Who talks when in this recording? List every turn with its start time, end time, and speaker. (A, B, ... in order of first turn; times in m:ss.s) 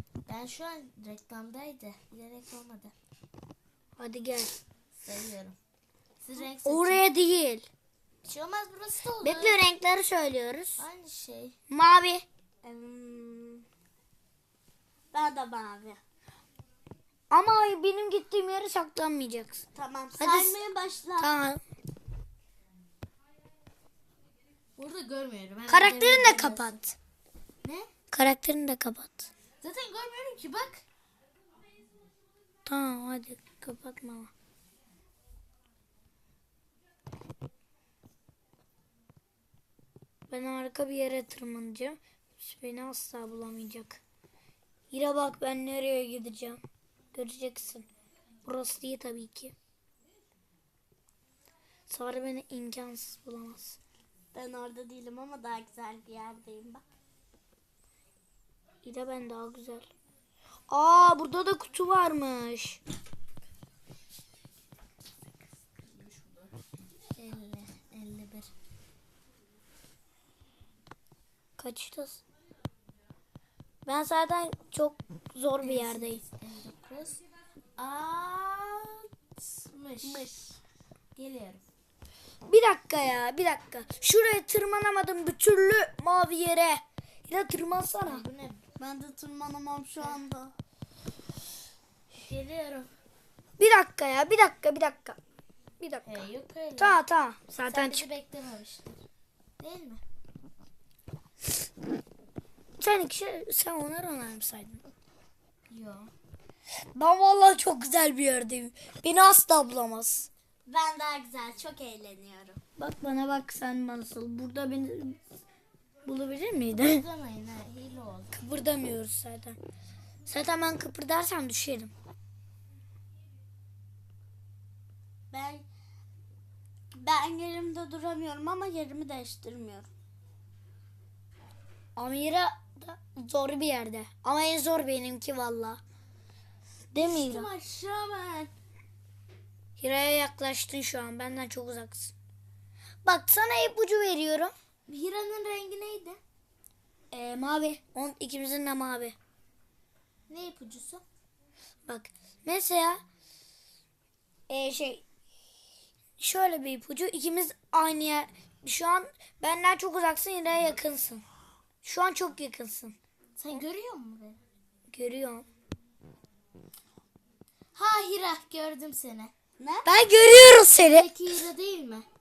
0:00.3-0:02.9 A
0:04.0-0:04.6 B
0:05.0-0:05.6 A
0:06.2-0:07.0 A
0:06.6-0:07.7 B
0:08.2-0:09.6 A
0:09.2-0:10.8 B
0:10.8-0:11.6 A
0:11.7-0:12.2 B
0:12.6-0:13.6 C
0:15.1-0:16.0 C
0:17.3-0:19.6 B
0:19.7-0:21.3 C
0:20.2-0:20.6 B
0:21.2-0:21.6 B
0:24.8-0:26.8 A
0:25.7-0:27.0 B
0:27.6-0:27.9 A
0:28.1-0:29.3 B
0:29.6-0:30.8 A
0:32.6-0:34.3 B
0:40.3-0:44.0 B
0:44.9-0:46.6 B
0:47.1-0:47.9 B
0:48.4-0:49.5 B
0:51.9-0:53.8 B
0:54.3-0:56.8 C
0:58.8-0:59.9 B
1:00.7-1:02.8 B
1:07.1-1:08.5 A
1:11.6-1:12.2 B
1:13.8-1:16.2 B
1:15.6-1:17.2 A
1:17.8-1:18.7 A
1:17.8-1:18.9 C
1:19.4-1:20.3 A
1:20.0-1:20.6 C
1:21.2-1:21.6 A
1:22.4-1:28.2 B
1:28.0-1:28.6 A
1:28.8-1:30.5 C
1:32.1-1:32.9 A
1:33.6-1:35.2 B
1:35.8-1:38.1 B
1:36.0-1:37.0 A
1:37.7-1:39.0 A
1:39.6-1:40.0 A
1:42.8-1:44.9 B
1:45.7-1:46.1 A
1:46.9-1:50.3 B
1:50.6-1:52.6 C
1:52.8-1:55.2 B
1:56.0-1:57.0 B
1:56.8-1:58.3 A
1:58.3-1:59.6 B
2:00.2-2:01.9 B
2:05.3-2:05.6 C
2:06.9-2:09.9 C
2:12.0-2:15.8 B
2:16.9-2:17.5 B
2:17.2-2:18.3 C
2:17.8-2:18.5 A
2:19.8-2:22.1 B
2:23.0-2:24.5 B
2:24.9-2:26.2 A
2:27.1-2:29.2 B
2:30.3-2:31.0 A
2:31.9-2:33.0 B
2:34.5-2:35.0 B
2:36.2-2:41.2 B
2:41.8-2:43.0 B
2:43.4-2:44.4 A
2:44.9-2:45.4 B
2:47.7-2:49.3 A
2:49.6-2:49.9 C
2:49.8-2:51.1 B
2:50.8-2:52.1 A